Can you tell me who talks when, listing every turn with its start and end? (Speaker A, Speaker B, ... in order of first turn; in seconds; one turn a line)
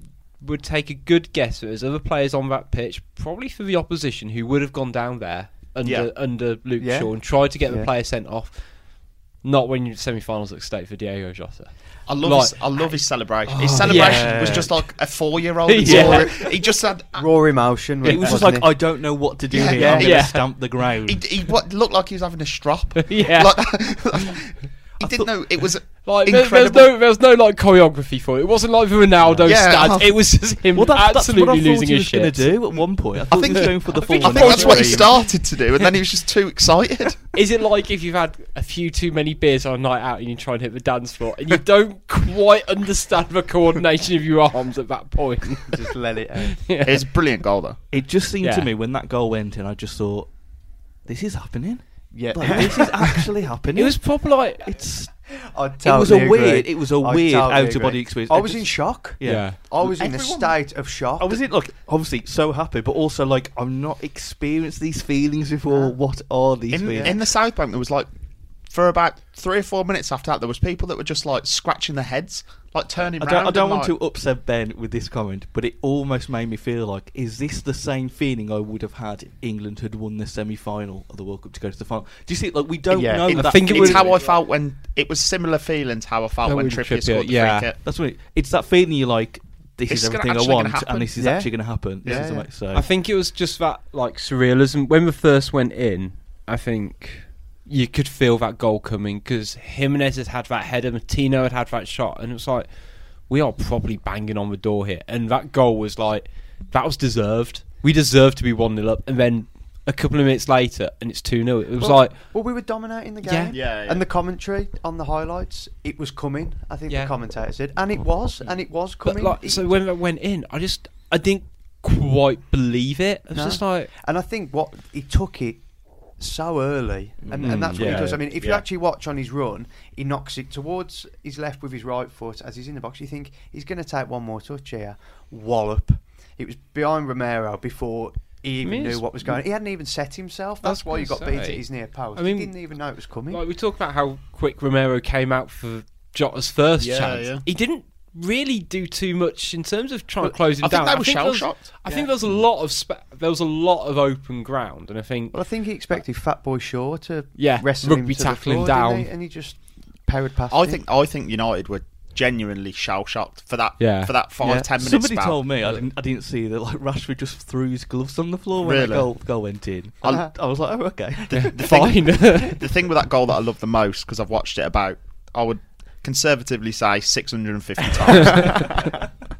Speaker A: 0.4-12.6
Speaker B: 5.8-6.1
Speaker C: 6.8-7.9
Speaker B: 12.1-17.2
Speaker D: 13.5-14.8
Speaker C: 13.6-14.7
Speaker A: 13.8-14.6
Speaker A: 15.7-16.2
Speaker D: 15.8-16.3
Speaker C: 15.9-16.5
Speaker C: 17.1-18.8
Speaker D: 18.0-21.4
Speaker B: 18.1-18.4
Speaker B: 19.5-20.2
Speaker C: 19.7-20.1
Speaker A: 19.8-20.4
Speaker B: 21.0-26.9
Speaker A: 23.1-23.5
Speaker D: 25.0-25.3
Speaker A: 26.0-32.6
Speaker D: 29.3-35.4
Speaker B: 29.4-30.0
Speaker B: 33.2-37.2
Speaker A: 33.5-35.0
Speaker C: 34.3-35.0
Speaker A: 37.3-45.9
Speaker C: 45.6-46.6
Speaker A: 46.5-47.1
Speaker B: 46.8-47.8
Speaker D: 47.9-50.4
Speaker A: 48.4-48.7
Speaker D: 51.0-55.1
Speaker C: 52.1-53.3
Speaker A: 53.7-54.7
Speaker C: 55.3-61.5
Speaker D: 55.8-60.2
Speaker A: 59.2-59.6
Speaker B: 60.0-60.5
Speaker D: 61.2-67.2
Speaker C: 65.7-65.9
Speaker B: 66.7-68.1
Speaker C: 66.9-67.2
Speaker B: 68.7-74.0
Speaker D: 73.1-84.4
Speaker C: 82.9-83.4
Speaker A: 83.3-84.1
Speaker B: 83.5-87.8
Speaker A: 86.4-87.7
Speaker D: 87.8-92.9
Speaker B: 89.9-91.1
Speaker C: 91.2-92.5
Speaker B: 92.0-92.3
Speaker A: 92.7-102.7
Speaker A: 103.3-112.3
Speaker C: 111.8-119.8
Speaker A: 113.2-113.5
Speaker B: 113.5-114.1
Speaker A: 116.9-117.1
Speaker A: 119.0-123.9
Speaker C: 123.3-125.7
Speaker C: 126.2-143.4
Speaker D: 127.2-128.6
Speaker A: 127.4-128.2
Speaker A: 138.6-139.4
Speaker A: 140.6-142.6
Speaker A: 143.3-155.4
Speaker B: 146.8-147.4
Speaker B: 150.6-151.7
Speaker C: 151.9-152.1
Speaker C: 155.3-160.8
Speaker A: 157.3-159.1
Speaker B: 160.5-165.4
Speaker A: 163.8-164.1
Speaker C: 164.4-164.7
Speaker D: 164.8-171.7
Speaker B: 168.6-169.1
Speaker A: 171.3-172.6
Speaker B: 171.5-178.9